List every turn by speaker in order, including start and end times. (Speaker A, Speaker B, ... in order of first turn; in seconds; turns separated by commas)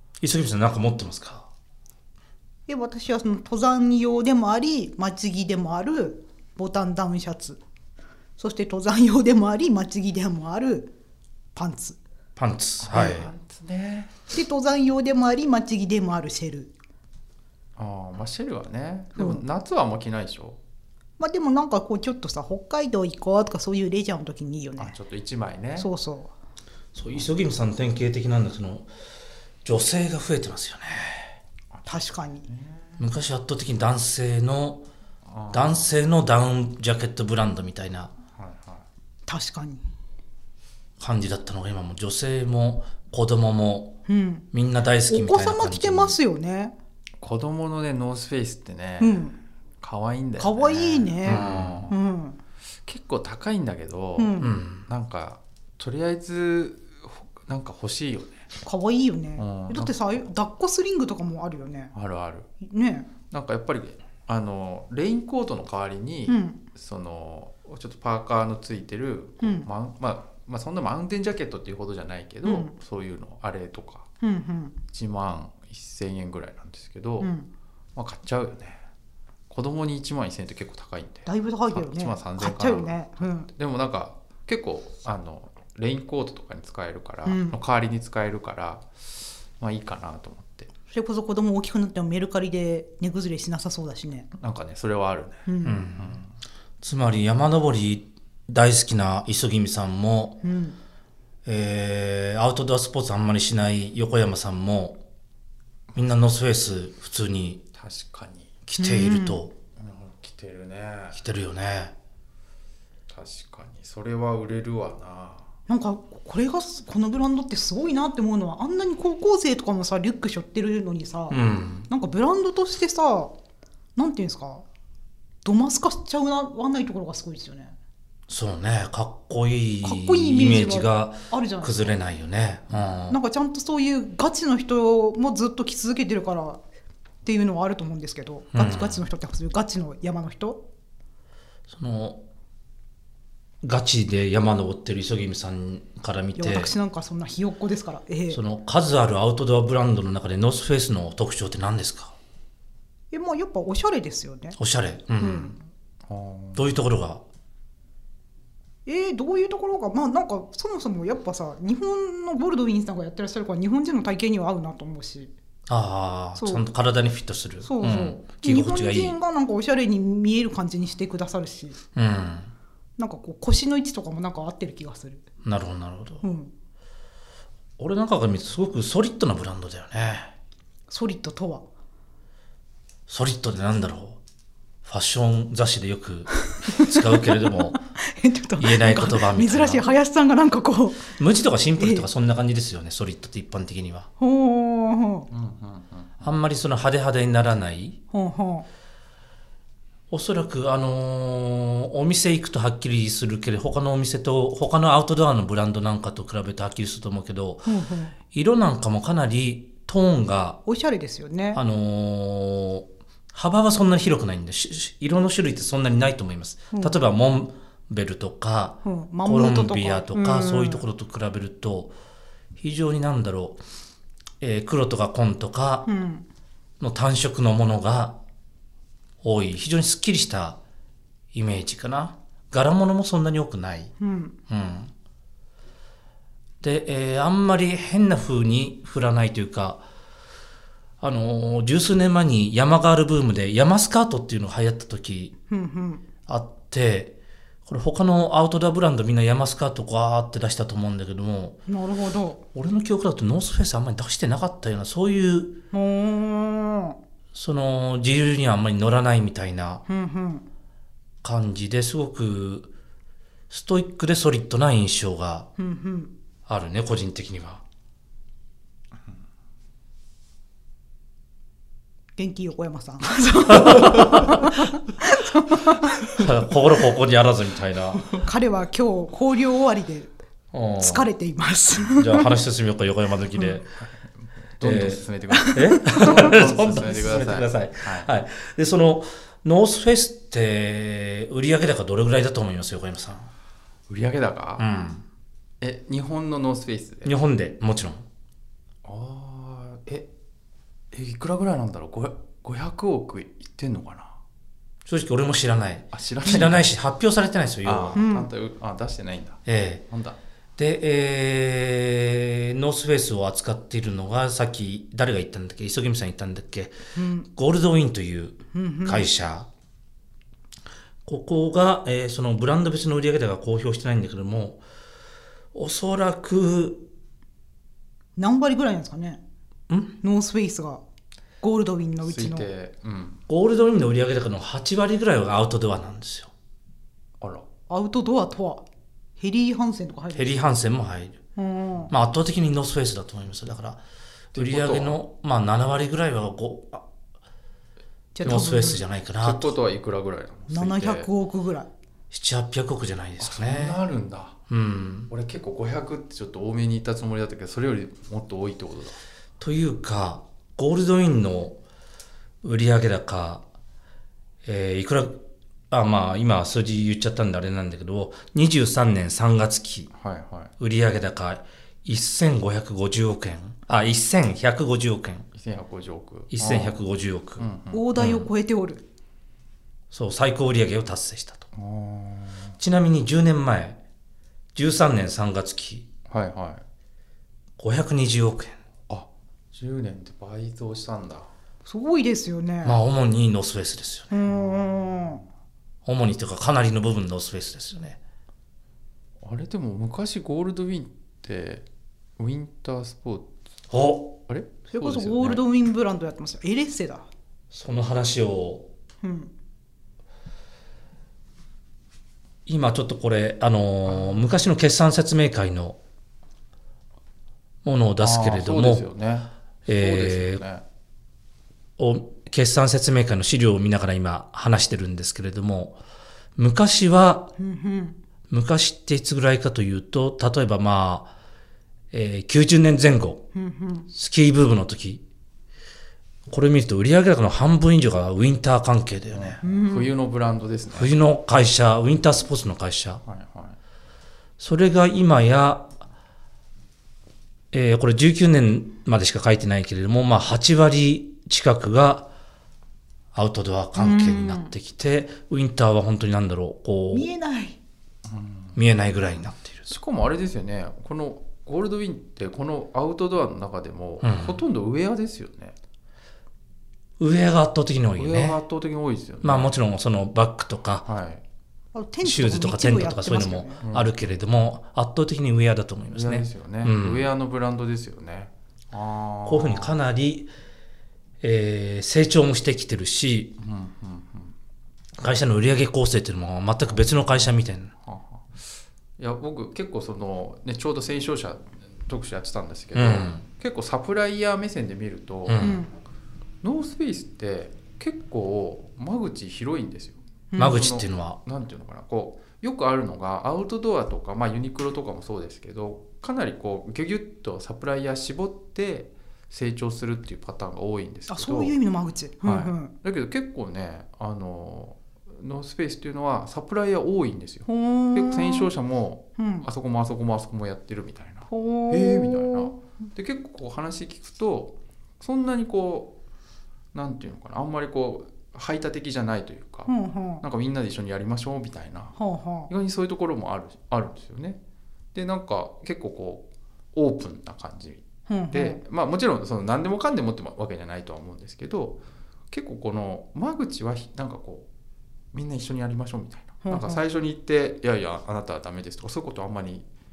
Speaker A: 0.2-1.5, Speaker B: 2.7-7.6, Speaker B: 8.4-10.9, Speaker B: 11.6-12.0, Speaker A: 12.4-13.3, Speaker C: 12.8-14.2, Speaker B: 14.3-16.7, Speaker C: 17.8-20.6, Speaker B: 19.2-19.4, Speaker B: 21.2-24.9, Speaker C: 24.8-25.9, Speaker B: 25.8-26.3, Speaker A: 26.9-28.9, Speaker A: 29.6-31.4, Speaker C: 31.7-33.0, Speaker B: 31.9-32.5, Speaker A: 33.0-34.8, Speaker C: 35.2-36.0, Speaker A: 35.5-38.1, Speaker C: 38.4-38.9, Speaker B: 39.3-39.8, Speaker A: 41.0-44.0, Speaker B: 44.1-44.5, Speaker A: 44.5-46.2, Speaker B: 45.1-46.7, Speaker C: 47.2-52.0, Speaker B: 49.0-49.4, Speaker B: 50.4-52.4, Speaker A: 51.3-51.9, Speaker C: 52.9-58.5, Speaker B: 54.2-54.5, Speaker A: 54.4-54.9, Speaker B: 58.6-61.9, Speaker C: 59.4-60.0, Speaker C: 61.9-62.5, Speaker B: 62.6-63.1, Speaker C: 63.3-74.1, Speaker B: 66.3-66.6, Speaker B: 69.4-69.7, Speaker B: 72.4-72.7, Speaker B: 74.2-74.8, Speaker C: 74.9-77.3, Speaker B: 77.2-77.5, Speaker C: 78.0-78.8, Speaker C: 79.5-89.1, Speaker B: 81.3-83.5, Speaker B: 87.2-87.6, Speaker C: 89.6-90.7, Speaker B: 90.9-94.3, Speaker C: 94.4-95.5, Speaker B: 95.5-95.9, Speaker A: 95.6-96.2, Speaker C: 96.0-96.3, Speaker A: 96.8-100.4, Speaker B: 100.4-100.8, Speaker A: 101.5-105.0, Speaker A: 106.0-107.6, Speaker C: 107.7-108.5, Speaker A: 108.7-109.5, Speaker B: 108.8-109.4, Speaker C: 109.8-111.2, Speaker A: 111.1-112.0, Speaker C: 113.1-115.5, Speaker B: 115.7-123.3, Speaker A: 121.3-121.9, Speaker B: 124.0-124.7, Speaker B: 125.4-127.8, Speaker A: 128.3-133.2, Speaker B: 129.8-132.0, Speaker B: 133.1-136.6, Speaker B: 137.2-140.6, Speaker A: 138.5-139.0, Speaker A: 141.7-142.2, Speaker A: 143.6-146.7, Speaker B: 146.4-148.4, Speaker A: 148.3-152.2, Speaker B: 153.1-154.6, Speaker A: 154.6-155.5, Speaker B: 155.2-155.6, Speaker C: 156.1-156.7, Speaker A: 156.6-157.2, Speaker B: 158.9-165.3, Speaker A: 165.7-169.2, Speaker B: 166.3-166.7, Speaker B: 167.6-171.8, Speaker A: 171.9-172.5, Speaker B: 173.0-175.2, Speaker A: 175.4-176.2, Speaker B: 176.2-176.5, Speaker A: 177.8-180.3, Speaker B: 180.9-181.6, Speaker A: 183.1-184.2, Speaker A: 184.8-187.8, Speaker B: 186.5-191.2, Speaker A: 188.6-189.8, Speaker A: 191.2-194.1, Speaker B: 191.8-192.1, Speaker B: 194.2-195.3, Speaker C: 195.3-196.2, Speaker A: 196.2-198.0, Speaker B: 198.1-198.7, Speaker A: 200.1-207.7, Speaker B: 207.7-208.1, Speaker A: 208.3-210.6, Speaker B: 210.7-211.6, Speaker A: 211.5-221.9, Speaker B: 216.7-217.0, Speaker B: 218.8-220.8, Speaker A: 222.6-223.6, Speaker A: 224.4-225.9, Speaker B: 225.8-226.2, Speaker A: 226.8-228.2, Speaker A: 229.2-230.6, Speaker A: 231.3-233.9, Speaker B: 234.0-234.3, Speaker A: 234.5-234.9, Speaker A: 236.6-239.8, Speaker A: 241.0-245.3, Speaker B: 245.5-246.1, Speaker A: 246.3-251.6, Speaker B: 251.7-252.4, Speaker A: 252.5-255.6, Speaker B: 255.7-257.0, Speaker A: 257.3-259.8, Speaker B: 259.9-260.4, Speaker A: 261.2-262.7, Speaker A: 263.5-265.5, Speaker B: 265.6-266.1, Speaker A: 266.5-267.6, Speaker B: 272.2-276.1, Speaker A: 273.5-274.5, Speaker A: 276.1-278.1, Speaker B: 277.9-280.1, Speaker A: 280.5-281.1, Speaker B: 280.8-282.3, Speaker A: 281.9-283.7, Speaker C: 284.6-288.1, Speaker A: 284.6-285.0, Speaker B: 285.3-286.3, Speaker A: 285.5-293.3, Speaker C: 293.9-294.7, Speaker A: 294.6-295.0, Speaker C: 295.6-297.1, Speaker A: 297.1-298.1, Speaker C: 298.8-300.1, Speaker C: 300.9-304.2, Speaker A: 304.9-308.0, Speaker C: 305.9-306.7, Speaker C: 307.6-310.2, Speaker B: 307.9-308.3, Speaker A: 309.5-309.9, Speaker A: 310.6-316.8, Speaker B: 316.9-317.3, Speaker A: 317.3-319.5, Speaker B: 318.5-319.1, Speaker A: 321.1-324.6, Speaker A: 325.5-326.9, Speaker B: 328.2-329.2, Speaker A: 329.7-330.0, Speaker B: 330.0-330.8, Speaker B: 331.4-332.5, Speaker C: 332.0-333.2, Speaker A: 333.3-336.3, Speaker C: 337.2-337.5, Speaker B: 337.7-338.6, Speaker B: 339.2-340.4, Speaker A: 340.1-341.2, Speaker B: 341.4-341.9, Speaker A: 341.9-343.8, Speaker C: 344.3-345.0, Speaker A: 344.3-346.9, Speaker B: 348.1-348.8, Speaker C: 348.2-348.6, Speaker A: 348.2-349.6, Speaker C: 349.2-351.1, Speaker B: 350.5-351.7, Speaker A: 352.1-353.8, Speaker C: 353.2-354.4, Speaker A: 354.5-355.1, Speaker C: 355.1-359.0, Speaker A: 359.4-361.6, Speaker A: 362.4-363.4, Speaker A: 364.4-369.9, Speaker C: 369.9-370.5, Speaker A: 370.6-375.3, Speaker C: 375.3-376.8, Speaker A: 376.3-378.3, Speaker C: 377.4-378.1, Speaker B: 377.7-378.9, Speaker A: 379.9-381.5, Speaker C: 381.5-382.6, Speaker A: 382.6-383.8, Speaker A: 384.6-385.9, Speaker C: 386.1-386.6, Speaker A: 387.6-388.6, Speaker C: 388.9-391.3, Speaker B: 391.6-392.8, Speaker A: 392.6-394.1, Speaker B: 394.1-395.2, Speaker C: 394.2-395.2, Speaker A: 395.9-398.0, Speaker C: 399.2-401.6, Speaker C: 402.2-403.3, Speaker A: 403.7-404.2, Speaker C: 404.3-405.4, Speaker B: 404.7-407.1, Speaker A: 407.5-408.7, Speaker B: 409.0-409.3, Speaker A: 412.5-415.8, Speaker A: 417.6-418.9, Speaker C: 418.0-420.6, Speaker A: 419.7-420.4, Speaker A: 421.8-425.8, Speaker A: 426.4-427.3, Speaker B: 427.4-428.0, Speaker A: 428.3-431.1, Speaker A: 431.9-433.3, Speaker B: 433.3-433.9, Speaker A: 433.9-435.0, Speaker A: 436.3-439.4, Speaker C: 439.1-440.9, Speaker B: 439.4-439.9, Speaker A: 440.7-443.0, Speaker C: 443.1-443.6, Speaker A: 444.4-445.7, Speaker A: 447.5-452.1, Speaker A: 453.1-457.1, Speaker B: 453.8-454.5, Speaker B: 456.9-457.6, Speaker C: 458.1-458.6, Speaker A: 458.6-459.8, Speaker C: 459.7-465.6, Speaker A: 464.0-464.4, Speaker A: 467.0-468.4, Speaker C: 468.0-469.6, Speaker A: 469.2-470.9, Speaker C: 470.9-471.2, Speaker B: 471.7-473.6, Speaker A: 472.0-477.1, Speaker C: 473.6-474.0, Speaker C: 475.9-479.8, Speaker A: 479.2-480.3, Speaker A: 481.2-483.4, Speaker C: 483.4-484.3, Speaker A: 485.0-487.7, Speaker C: 486.6-487.3, Speaker C: 487.9-495.6, Speaker A: 492.7-493.2, Speaker A: 495.3-495.6, Speaker B: 495.4-495.7, Speaker C: 496.4-511.6, Speaker B: 500.3-500.6, Speaker A: 500.4-501.2, Speaker B: 511.1-512.7, Speaker C: 512.2-525.9, Speaker B: 517.5-518.5, Speaker B: 519.2-519.5, Speaker B: 521.3-522.5, Speaker C: 526.7-534.4, Speaker B: 529.7-530.2, Speaker B: 532.0-532.5, Speaker C: 534.9-544.5, Speaker B: 538.1-538.6, Speaker C: 545.1-549.7, Speaker B: 546.4-546.8